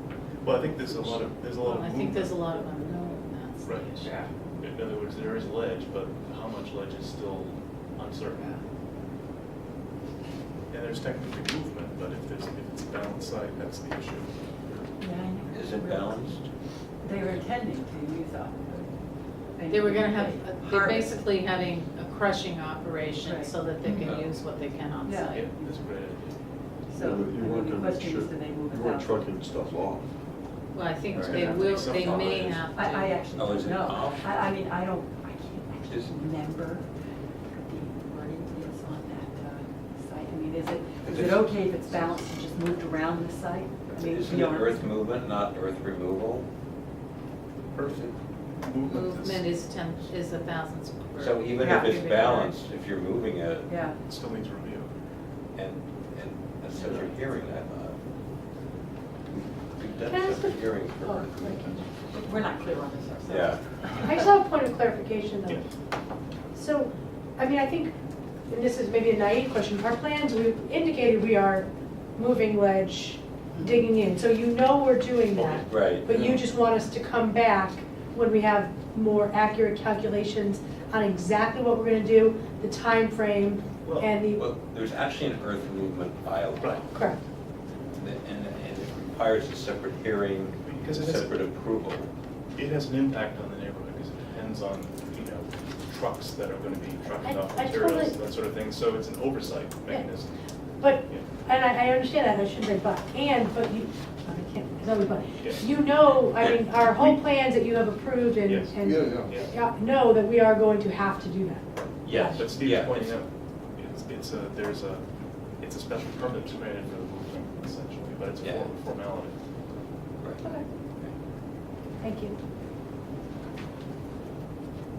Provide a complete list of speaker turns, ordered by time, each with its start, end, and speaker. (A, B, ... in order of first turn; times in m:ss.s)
0:00.4-0:02.4 A
0:01.6-0:04.1 B
0:03.6-0:03.9 A
0:04.0-0:04.3 C
0:04.6-0:08.6 A
0:10.7-0:14.9 A
0:15.0-0:16.4 C
0:15.5-0:16.5 D
0:17.0-0:19.0 C
0:19.6-0:21.2 C
0:19.7-0:25.5 B
0:23.2-0:24.1 C
0:24.0-0:24.3 D
0:25.0-0:25.5 C
0:25.3-0:26.4 A
0:26.9-0:29.2 C
0:27.0-0:30.1 E
0:30.7-0:33.2 B
0:31.1-0:32.6 D
0:31.2-0:32.6 A
0:32.7-0:36.9 C
0:33.3-0:34.4 D
0:35.9-0:36.2 D
0:37.5-0:44.9 C
0:41.0-0:41.6 D
0:43.9-0:46.5 D
0:47.8-0:48.1 A
0:47.9-0:48.2 D
0:48.6-0:49.6 A
0:48.8-0:52.6 B
0:51.2-0:53.7 D
0:51.6-0:51.9 C
0:53.7-0:54.0 C
0:54.1-0:54.9 A
0:55.6-0:58.0 D
0:59.8-1:01.8 D
1:00.1-1:01.8 F
1:02.1-1:04.3 C
1:03.3-1:03.6 D
1:04.0-1:05.6 F
1:06.6-1:07.9 F
1:08.5-1:24.4 F
1:13.6-1:13.9 C
1:15.4-1:15.7 A
1:15.6-1:16.1 D
1:16.1-1:16.4 E
1:23.8-1:24.2 A
1:24.4-1:26.9 D
1:26.6-1:26.9 A
1:26.9-1:27.2 F
1:28.0-1:32.1 D
1:30.6-1:31.5 A
1:32.6-1:40.4 A
1:37.2-1:38.2 F
1:40.8-1:51.6 F
1:45.4-1:45.7 A
1:46.9-1:47.2 A
1:48.4-1:49.5 A
1:48.8-1:49.4 E
1:52.0-1:53.2 D
1:52.1-1:52.4 F
1:52.4-1:53.3 A
1:53.8-1:55.0 A
1:55.6-1:59.4 A
1:58.4-1:58.7 D
2:02.0-2:02.4 F